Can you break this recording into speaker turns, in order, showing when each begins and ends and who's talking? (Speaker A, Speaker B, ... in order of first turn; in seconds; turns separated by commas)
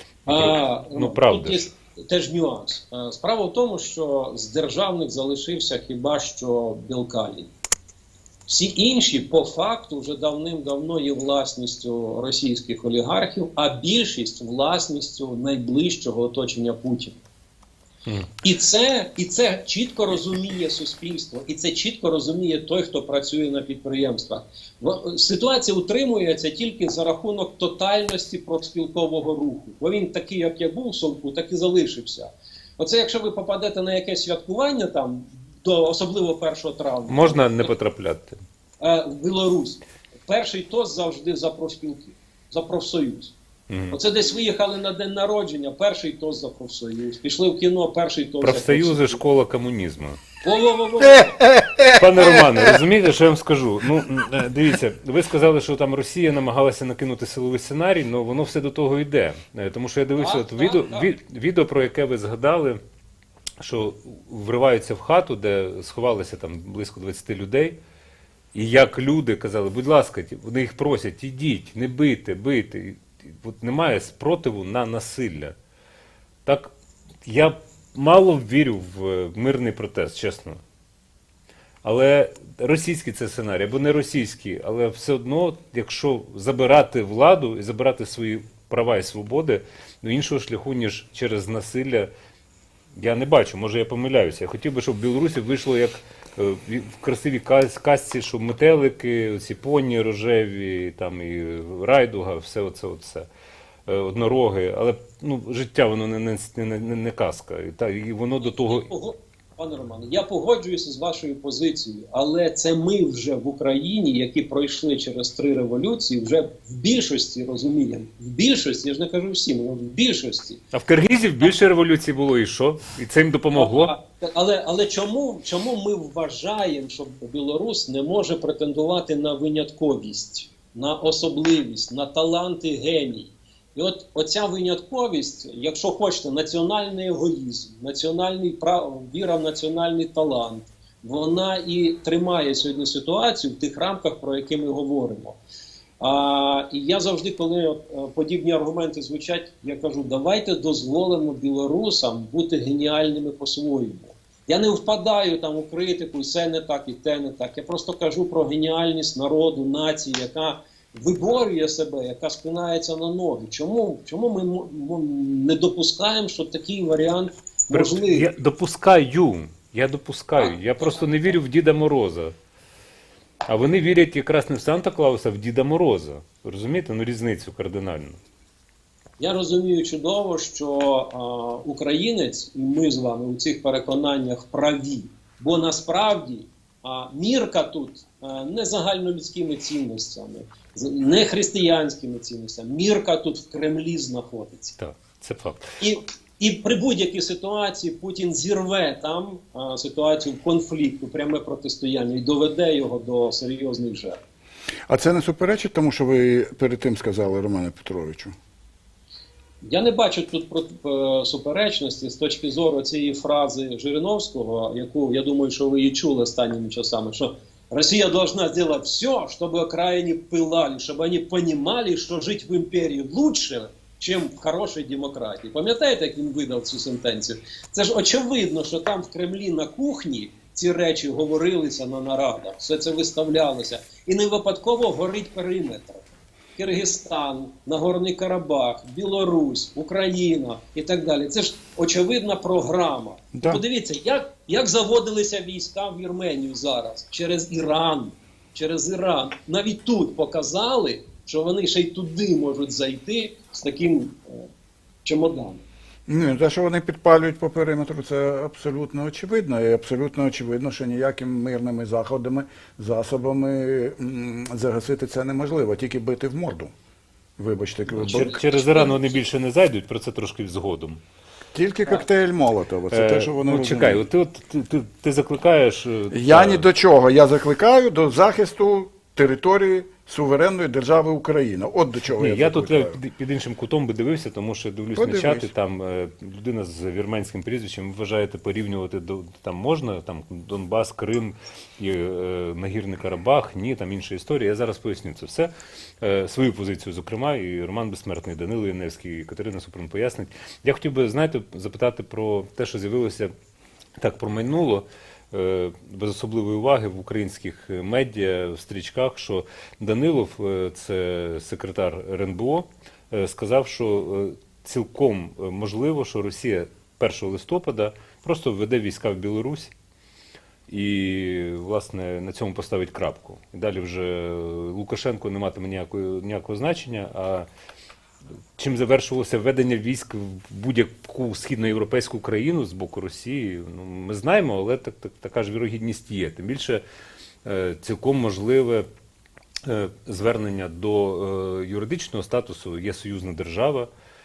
Speaker A: 0.3-1.7, Speaker B: 0.3-7.5, Speaker B: 8.5-17.2, Speaker B: 18.4-37.7, Speaker A: 37.1-38.4, Speaker B: 38.8-43.4, Speaker A: 43.7-44.0, Speaker B: 43.9-49.4, Speaker A: 48.4-50.2, Speaker B: 50.4-51.4, Speaker A: 51.8-62.8, Speaker B: 60.1-61.1, Speaker A: 63.6-67.8, Speaker A: 68.5-75.5, Speaker A: 76.4-76.7, Speaker A: 77.2-80.6, Speaker A: 81.8-92.1, Speaker A: 93.0-103.3, Speaker A: 103.9-108.9, Speaker B: 108.4-120.6, Speaker A: 120.7-123.9, Speaker B: 123.5-145.4, Speaker B: 146.0-168.3, Speaker A: 167.7-172.3, Speaker B: 170.4-171.0, Speaker A: 173.5-178.2, Speaker B: 179.2-194.8, Speaker A: 194.8-195.6, Speaker B: 195.8-204.2, Speaker C: 204.9-208.3, Speaker B: 209.6-236.0, Speaker B: 236.6-254.5, Speaker C: 243.3-243.6, Speaker B: 255.0-255.6, Speaker C: 256.1-266.7, Speaker C: 267.4-268.4, Speaker A: 267.9-271.0, Speaker C: 271.5-274.1, Speaker A: 272.9-276.7, Speaker C: 276.1-283.0, Speaker A: 282.1-303.3, Speaker C: 284.9-285.5, Speaker A: 304.0-319.7, Speaker A: 320.7-327.5, Speaker A: 328.6-336.8, Speaker A: 337.4-338.9, Speaker A: 339.6-343.9